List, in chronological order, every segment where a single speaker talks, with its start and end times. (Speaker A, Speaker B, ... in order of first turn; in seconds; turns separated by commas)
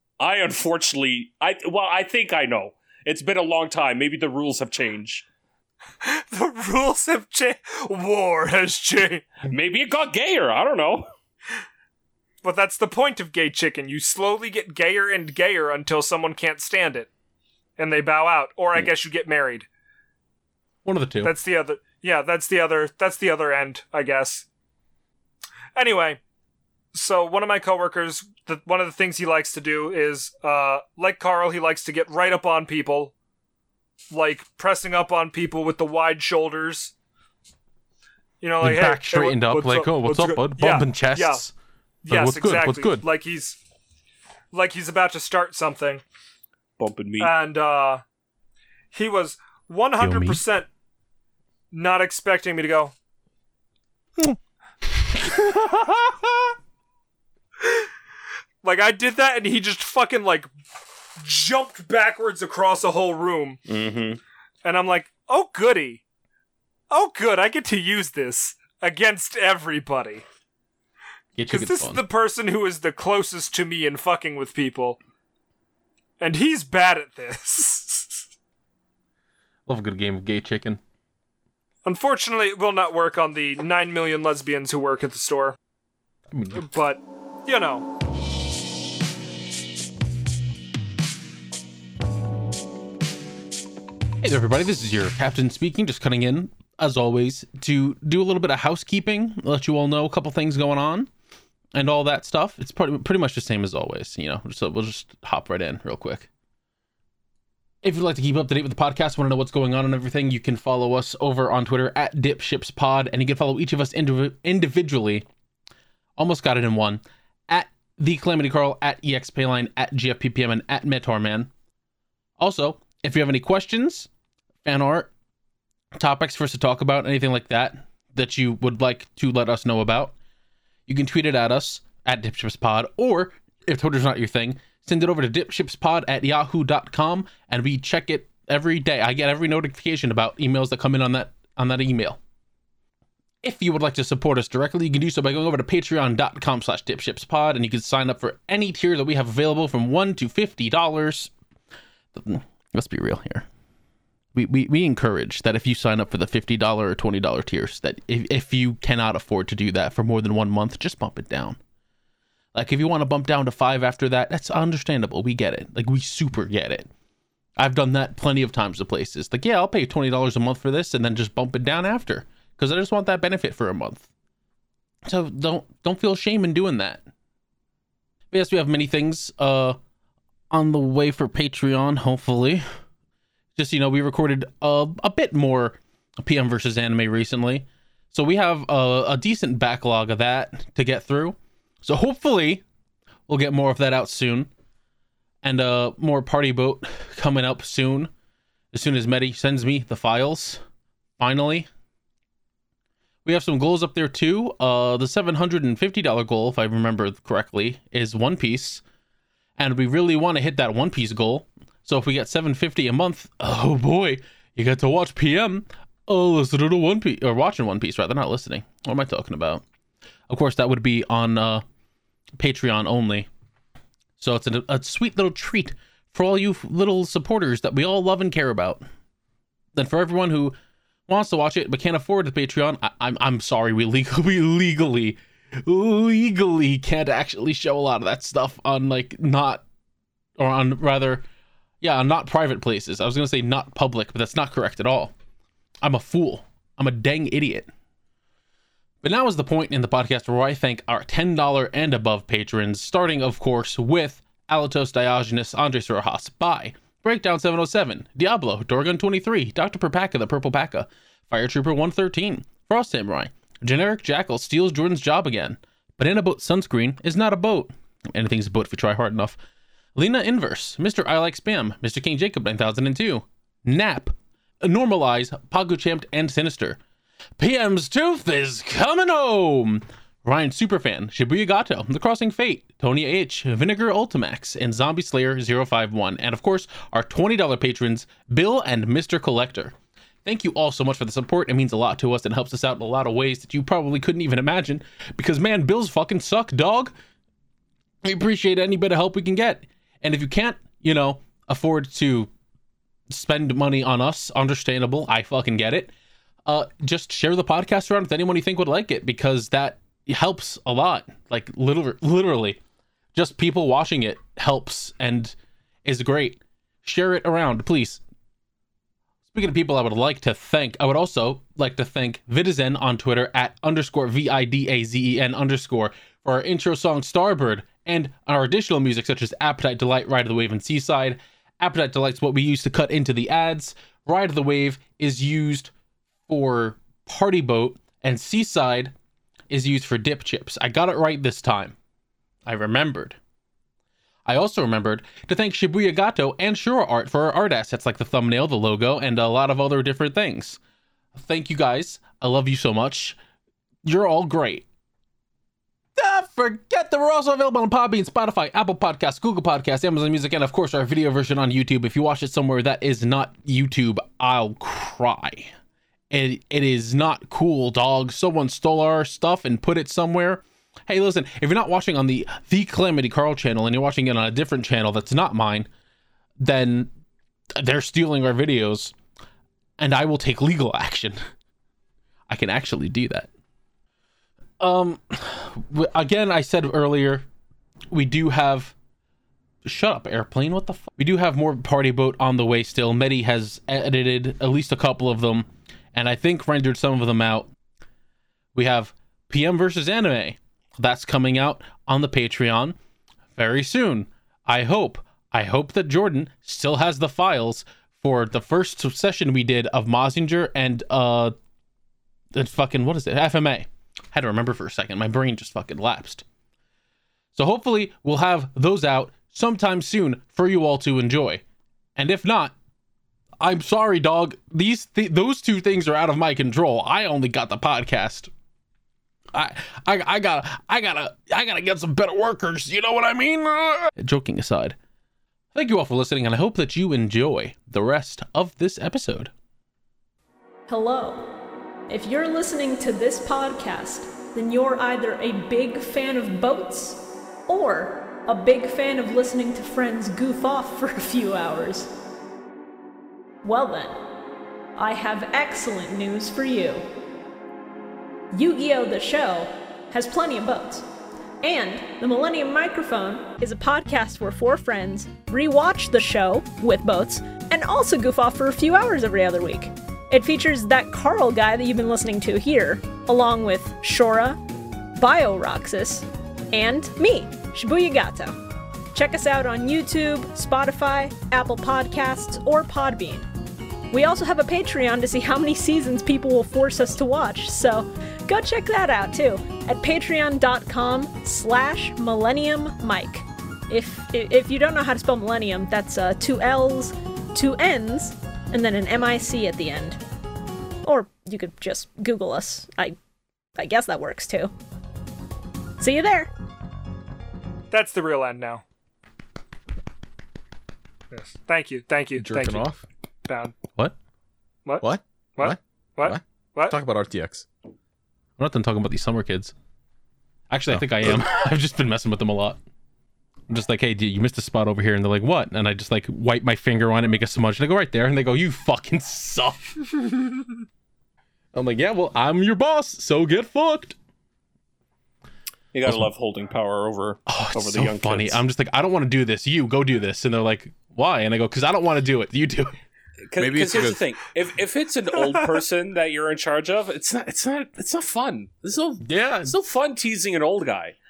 Speaker A: 0.2-5.2, Speaker B: 6.0-9.3, Speaker A: 9.4-11.1, Speaker B: 12.4-17.1, Speaker B: 17.8-19.7, Speaker C: 20.9-21.3, Speaker B: 21.2-24.5, Speaker B: 25.8-26.2, Speaker B: 26.9-33.1, Speaker B: 34.1-36.9, Speaker B: 38.4-41.4, Speaker C: 38.6-41.5, Speaker B: 42.0-43.6, Speaker C: 42.1-43.0, Speaker B: 44.5-46.0, Speaker A: 46.8-47.3, Speaker B: 47.2-48.0, Speaker B: 48.9-50.7, Speaker C: 50.0-50.4, Speaker B: 51.7-52.9, Speaker C: 54.2-56.4, Speaker B: 58.6-60.5, Speaker B: 61.1-63.6, Speaker A: 63.7-64.2, Speaker B: 64.6-66.0, Speaker B: 66.9-70.2, Speaker C: 71.4-72.0, Speaker B: 71.5-75.0, Speaker B: 76.2-78.2, Speaker C: 79.7-80.8, Speaker B: 81.8-85.6, Speaker C: 86.3-86.7, Speaker B: 86.6-87.9, Speaker C: 94.2-101.1, Speaker C: 101.7-106.3, Speaker C: 107.8-115.2, Speaker C: 116.2-121.5, Speaker C: 122.4-124.1, Speaker C: 124.6-125.1, Speaker C: 126.0-130.2, Speaker C: 130.9-142.2, Speaker C: 143.4-151.3, Speaker C: 152.1-153.5, Speaker C: 154.3-161.6, Speaker C: 162.5-166.9, Speaker C: 167.6-174.1, Speaker C: 175.1-177.0, Speaker C: 178.3-179.8, Speaker C: 180.5-182.7, Speaker C: 183.6-192.6, Speaker C: 193.3-194.5, Speaker C: 195.4-198.1, Speaker C: 198.7-200.6, Speaker C: 201.2-201.7, Speaker C: 203.2-208.8, Speaker C: 209.6-219.6, Speaker C: 220.3-221.6, Speaker C: 222.4-223.3, Speaker C: 224.2-228.8, Speaker C: 229.8-230.6, Speaker C: 231.1-239.6, Speaker C: 240.4-241.2, Speaker C: 241.8-245.1, Speaker C: 245.8-247.7, Speaker C: 249.0-269.4, Speaker C: 270.0-276.8, Speaker C: 277.4-289.7, Speaker C: 290.2-296.9, Speaker C: 298.0-302.3, Speaker C: 303.1-305.9, Speaker C: 306.5-312.6, Speaker C: 313.1-318.0, Speaker C: 319.3-335.7, Speaker C: 336.3-338.9, Speaker C: 339.5-341.8, Speaker C: 342.5-343.2, Speaker C: 344.3-350.6, Speaker C: 351.1-353.2, Speaker C: 353.8-354.6, Speaker C: 356.0-365.5, Speaker C: 366.1-375.7, Speaker C: 376.4-376.9, Speaker C: 377.6-378.9, Speaker C: 379.8-381.2, Speaker C: 382.3-383.3, Speaker C: 384.6-387.3, Speaker C: 387.9-388.7, Speaker C: 389.6-397.5, Speaker C: 398.6-402.8, Speaker C: 403.4-411.3, Speaker C: 412.3-416.2, Speaker C: 417.4-421.4, Speaker C: 422.0-422.5, Speaker C: 423.4-428.3, Speaker C: 429.3-434.8, Speaker C: 435.6-439.3, Speaker D: 440.7-441.3, Speaker D: 441.9-451.9, Speaker D: 453.4-454.0, Speaker D: 454.8-456.8, Speaker D: 458.3-460.9, Speaker D: 461.4-474.4, Speaker D: 475.0-478.4, Speaker D: 478.9-483.3, Speaker D: 483.9-500.0, Speaker D: 500.8-503.0, Speaker D: 503.6-504.5, Speaker D: 505.8-506.3, Speaker B: 507.7-508.6, Speaker B: 511.1-512.7, Speaker E: 512.2-512.8, Speaker B: 513.3-513.5, Speaker E: 514.8-517.5, Speaker B: 515.4-516.8, Speaker C: 518.4-519.5, Speaker C: 520.5-522.6, Speaker E: 520.7-521.2, Speaker C: 523.5-529.8, Speaker C: 531.5-534.0, Speaker A: 535.7-538.4, Speaker C: 537.3-542.7, Speaker A: 543.2-551.0, Speaker E: 543.4-544.1, Speaker C: 549.0-549.5